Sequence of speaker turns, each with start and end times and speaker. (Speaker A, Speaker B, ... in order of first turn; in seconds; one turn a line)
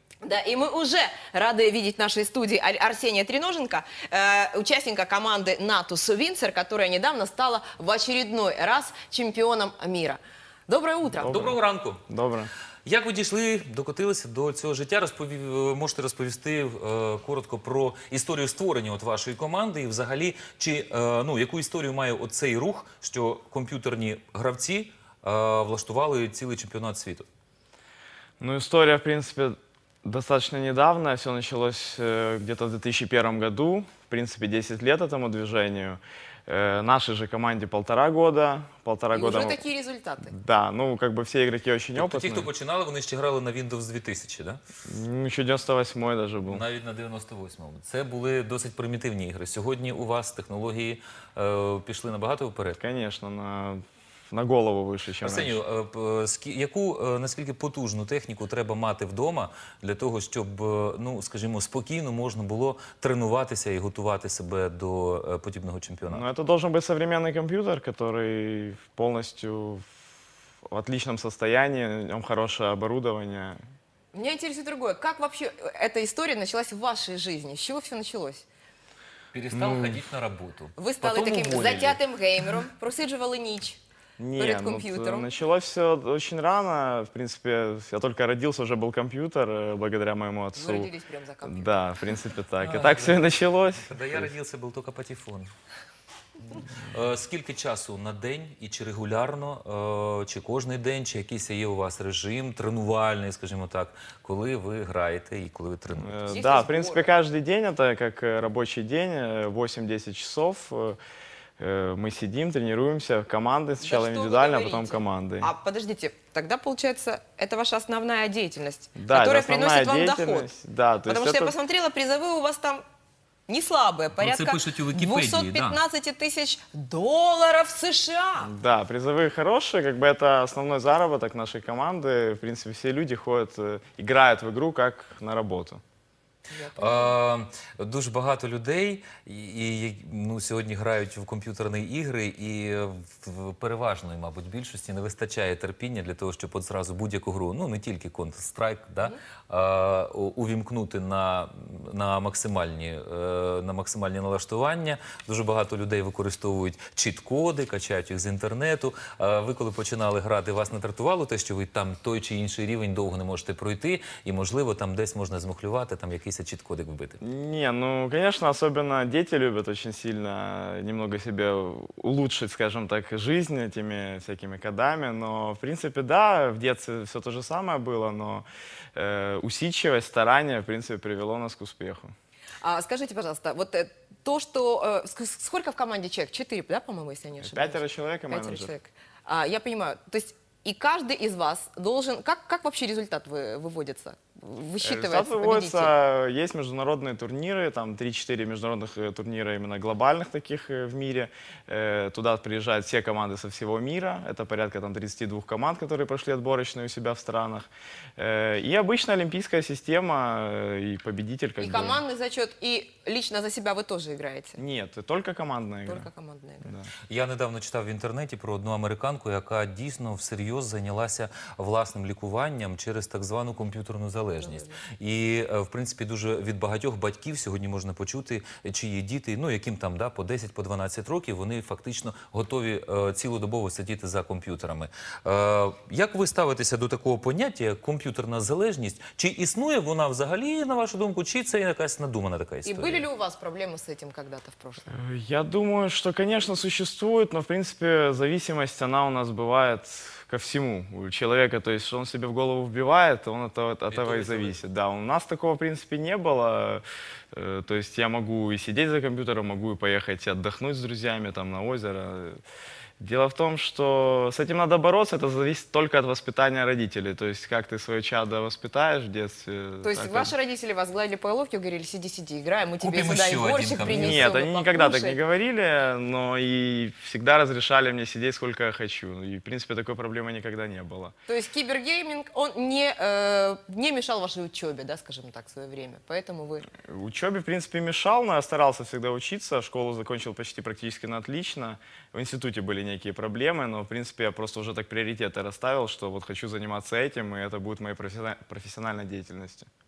Speaker A: 0.2-11.3
Speaker B: 11.2-12.5
Speaker C: 11.2-12.0
Speaker C: 12.8-27.2
Speaker B: 28.4-39.6
Speaker A: 39.1-40.3
Speaker B: 40.3-42.5
Speaker C: 42.0-44.6
Speaker B: 44.8-46.6
Speaker C: 46.5-52.8
Speaker B: 52.7-55.6
Speaker C: 55.2-66.3
Speaker B: 66.1-69.8
Speaker B: 70.7-73.6
Speaker A: 74.1-78.4
Speaker C: 79.3-82.0
Speaker B: 79.5-80.0
Speaker A: 80.8-83.8
Speaker B: 84.2-90.9
Speaker A: 84.4-85.3
Speaker A: 90.5-91.8
Speaker B: 91.4-94.3
Speaker C: 92.6-93.3
Speaker C: 93.8-95.5
Speaker C: 96.5-106.4
Speaker B: 105.9-111.0
Speaker A: 106.3-107.1
Speaker B: 111.6-115.5
Speaker A: 113.8-120.5
Speaker B: 118.9-121.5
Speaker A: 121.0-122.8
Speaker A: 123.5-128.5
Speaker C: 124.2-125.8
Speaker B: 128.4-135.8
Speaker A: 136.5-137.1
Speaker C: 136.7-167.2
Speaker B: 167.2-182.1
Speaker A: 182.6-195.9
Speaker B: 187.4-188.7
Speaker B: 194.8-212.0
Speaker A: 211.6-214.6
Speaker B: 214.6-216.1
Speaker A: 215.8-216.7
Speaker B: 216.6-216.9
Speaker C: 217.1-243.0
Speaker A: 224.4-224.8
Speaker A: 242.6-244.9
Speaker B: 244.9-262.4
Speaker C: 253.9-254.6
Speaker B: 263.0-270.3
Speaker A: 269.8-275.2
Speaker C: 272.8-274.4
Speaker B: 273.9-281.1
Speaker A: 281.3-286.7
Speaker B: 286.8-299.7